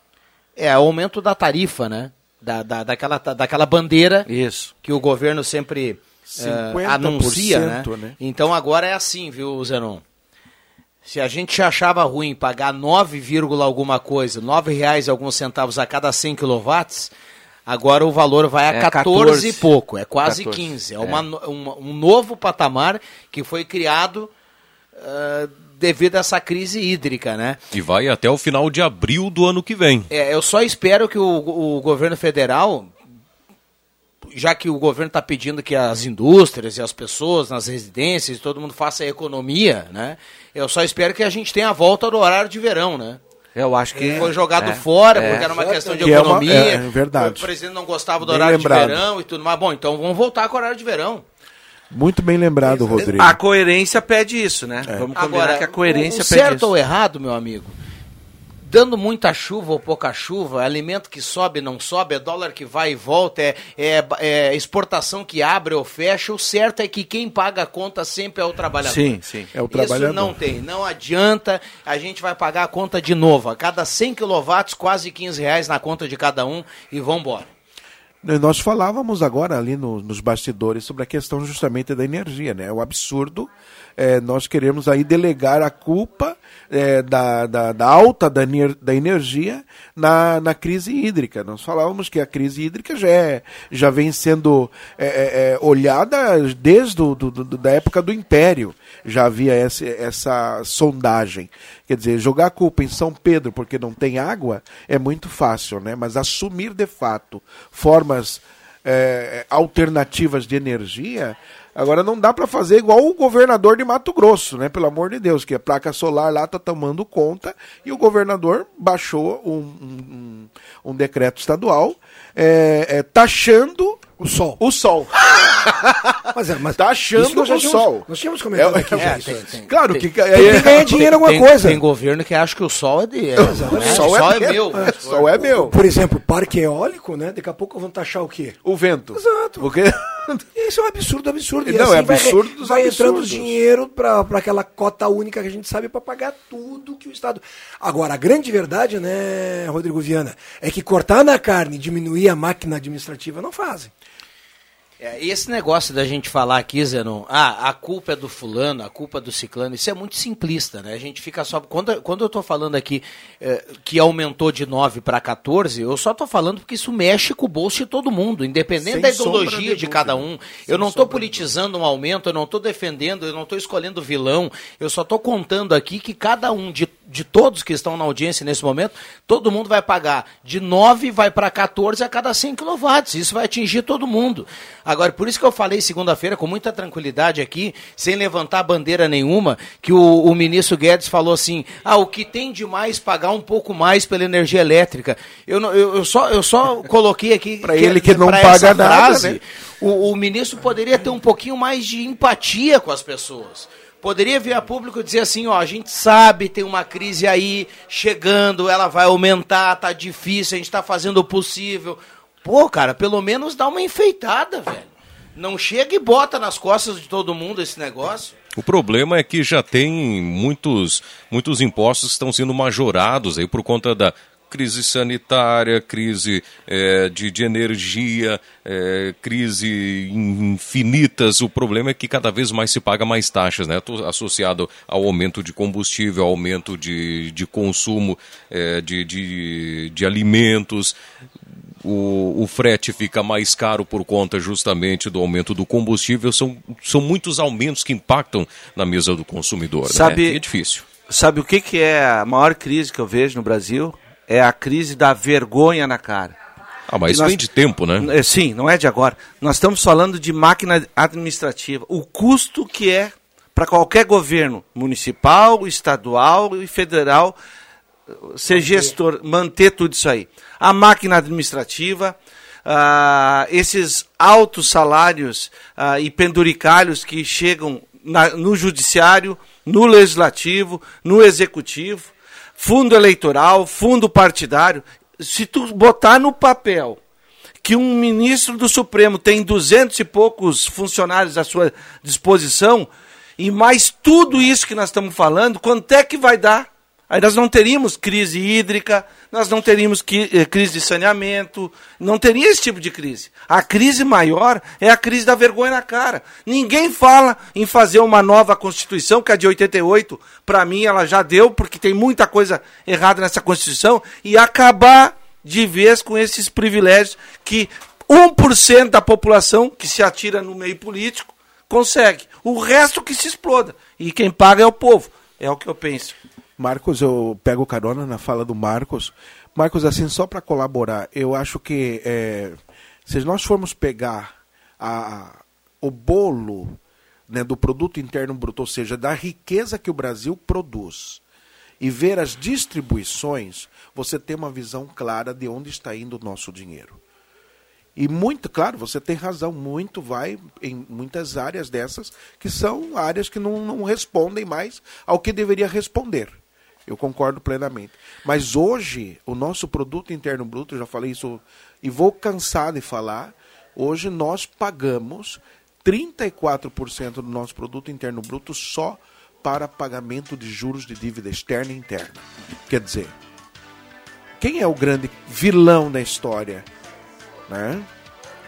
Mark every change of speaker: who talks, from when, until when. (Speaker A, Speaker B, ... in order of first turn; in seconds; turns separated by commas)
Speaker A: 0.6-4.3, Speaker B: 4.2-4.7, Speaker A: 4.8-10.0, Speaker C: 6.3-8.2, Speaker A: 11.0-17.1, Speaker A: 17.7-24.3, Speaker B: 18.7-19.7, Speaker B: 20.2-21.2, Speaker A: 25.0-27.6, Speaker D: 27.7-30.1, Speaker A: 30.1-32.9, Speaker A: 34.3-43.2, Speaker B: 43.5-45.5, Speaker E: 43.9-44.3, Speaker A: 44.1-51.2, Speaker E: 45.2-46.4, Speaker C: 46.0-47.5, Speaker C: 48.2-49.0, Speaker C: 51.9-53.4, Speaker B: 53.0-56.7, Speaker A: 55.1-57.7, Speaker A: 58.6-69.2, Speaker B: 68.8-69.5, Speaker C: 69.5-70.4, Speaker A: 69.7-77.5, Speaker C: 78.2-124.1, Speaker E: 124.2-124.6, Speaker C: 124.6-125.9, Speaker E: 126.3-129.5, Speaker C: 126.8-131.1, Speaker A: 128.9-135.2, Speaker E: 130.3-131.8, Speaker E: 133.4-138.6, Speaker C: 133.4-135.8, Speaker C: 138.6-140.4, Speaker E: 139.1-139.7, Speaker E: 140.5-153.9, Speaker C: 141.6-143.6, Speaker A: 155.0-218.3, Speaker C: 168.8-171.5, Speaker C: 197.6-199.4, Speaker D: 218.6-240.9, Speaker D: 241.8-250.9, Speaker B: 249.8-256.4, Speaker D: 256.9-258.1, Speaker B: 257.1-257.4, Speaker B: 258.0-267.4, Speaker B: 268.1-287.0, Speaker B: 287.6-326.1, Speaker C: 326.6-341.2, Speaker C: 341.8-347.0, Speaker C: 347.9-373.1, Speaker C: 374.4-376.6, Speaker C: 377.5-377.9